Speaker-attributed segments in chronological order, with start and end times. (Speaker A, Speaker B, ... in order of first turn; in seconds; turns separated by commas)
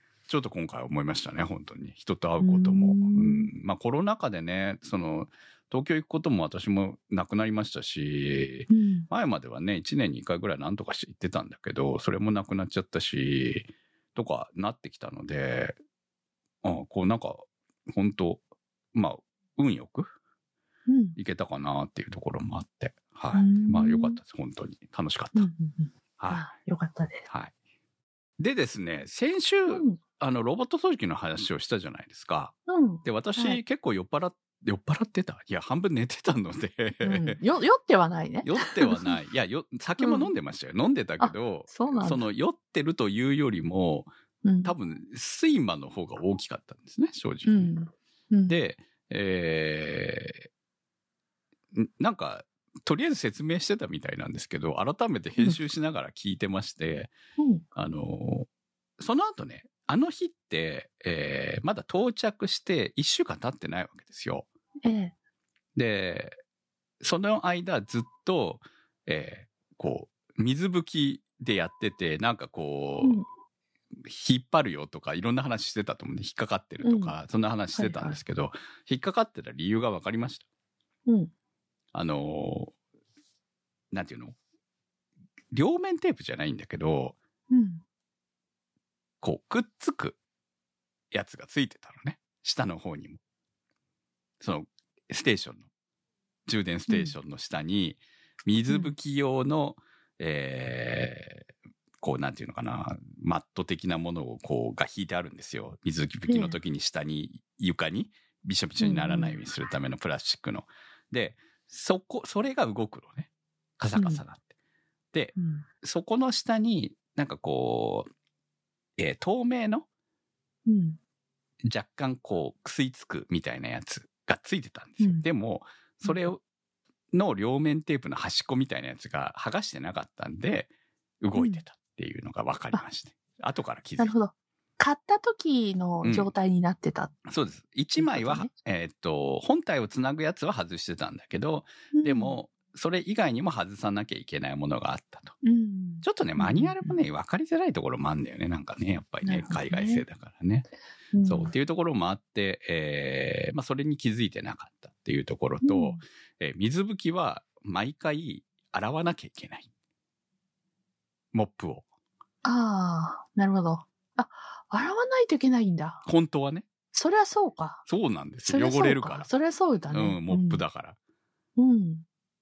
Speaker A: 0.3-15.8, Speaker B: 2.4-3.5, Speaker B: 8.7-9.1, Speaker A: 16.6-18.4, Speaker A: 18.9-20.1, Speaker B: 20.9-21.2, Speaker A: 21.2-25.5, Speaker B: 23.3-24.2, Speaker B: 25.3-27.3, Speaker A: 26.2-26.4, Speaker A: 27.3-27.5, Speaker A: 28.4-37.4, Speaker B: 29.7-30.0, Speaker B: 32.7-33.6, Speaker B: 37.0-39.1, Speaker A: 38.4-44.1, Speaker B: 40.0-40.3, Speaker B: 41.2-42.2, Speaker B: 44.4-44.7, Speaker A: 44.6-47.8, Speaker B: 47.5-48.6, Speaker A: 48.5-50.5, Speaker A: 51.7-57.1, Speaker B: 57.4-57.6, Speaker A: 57.7-58.5, Speaker A: 59.0-64.5, Speaker B: 64.8-65.1, Speaker A: 65.7-66.4, Speaker A: 67.0-73.2, Speaker B: 73.0-73.2, Speaker A: 74.0-80.4, Speaker B: 76.8-77.1, Speaker B: 77.7-78.2, Speaker B: 81.1-81.3, Speaker A: 81.9-82.7, Speaker A: 83.9-84.4, Speaker A: 85.5-87.2, Speaker B: 87.5-87.8, Speaker A: 89.2-90.2, Speaker A: 91.1-93.2, Speaker A: 94.4-95.7, Speaker A: 96.5-101.5, Speaker B: 96.9-97.2, Speaker B: 98.7-98.9, Speaker A: 102.0-114.5, Speaker B: 106.3-106.6, Speaker B: 108.8-109.4, Speaker B: 113.9-114.2, Speaker A: 115.1-118.1, Speaker B: 115.3-115.7, Speaker A: 119.0-119.8, Speaker B: 120.7-121.0, Speaker A: 121.6-126.4, Speaker B: 125.0-125.3, Speaker B: 126.0-126.3, Speaker A: 127.1-130.7, Speaker A: 131.2-134.1, Speaker B: 131.3-131.6, Speaker B: 134.0-137.1, Speaker A: 136.0-136.3, Speaker A: 137.2-145.3, Speaker B: 138.0-138.5, Speaker B: 141.9-142.4, Speaker B: 145.4-147.0, Speaker A: 146.0-150.7, Speaker B: 149.2-150.0, Speaker B: 151.1-151.5, Speaker A: 151.2-159.7, Speaker B: 155.6-156.0, Speaker A: 161.3-161.8, Speaker B: 162.4-166.1, Speaker A: 166.0-166.7, Speaker B: 166.9-167.8, Speaker A: 167.9-169.3, Speaker B: 168.4-170.6, Speaker A: 169.9-171.0, Speaker B: 171.6-172.0